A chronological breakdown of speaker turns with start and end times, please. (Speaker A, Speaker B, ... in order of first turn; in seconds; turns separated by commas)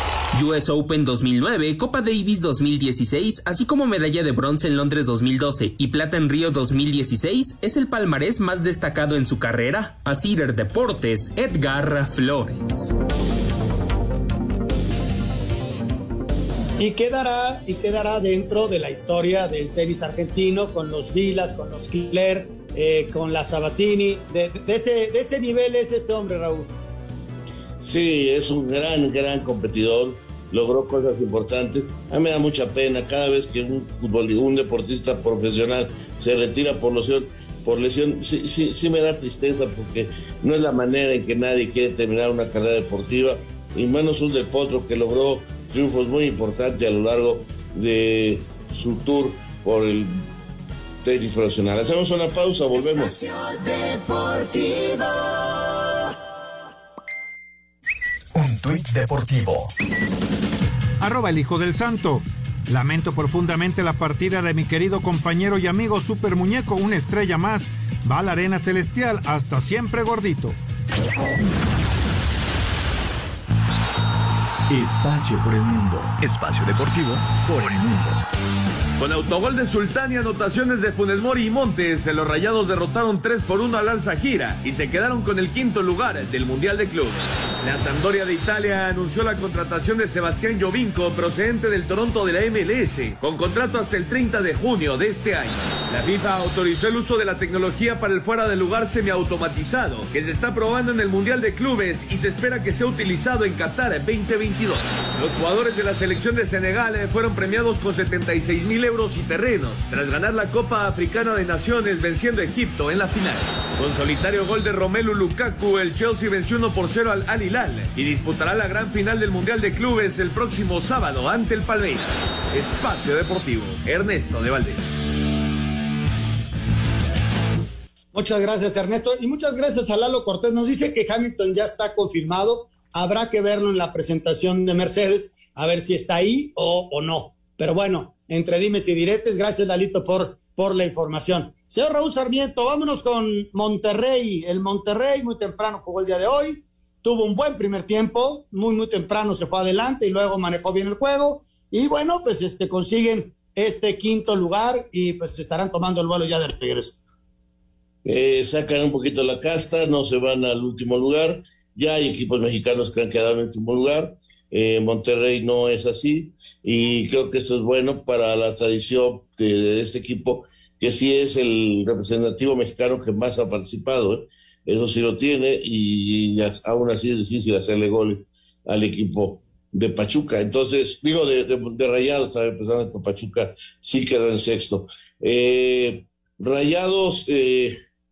Speaker A: 0.3-12.9, Speaker B: 16.8-26.7, Speaker C: 27.8-50.2, Speaker C: 51.0-53.2, Speaker D: 58.3-59.7, Speaker E: 61.0-70.6, Speaker D: 74.7-78.2, Speaker F: 79.0-124.8, Speaker B: 128.1-156.9, Speaker C: 158.0-187.7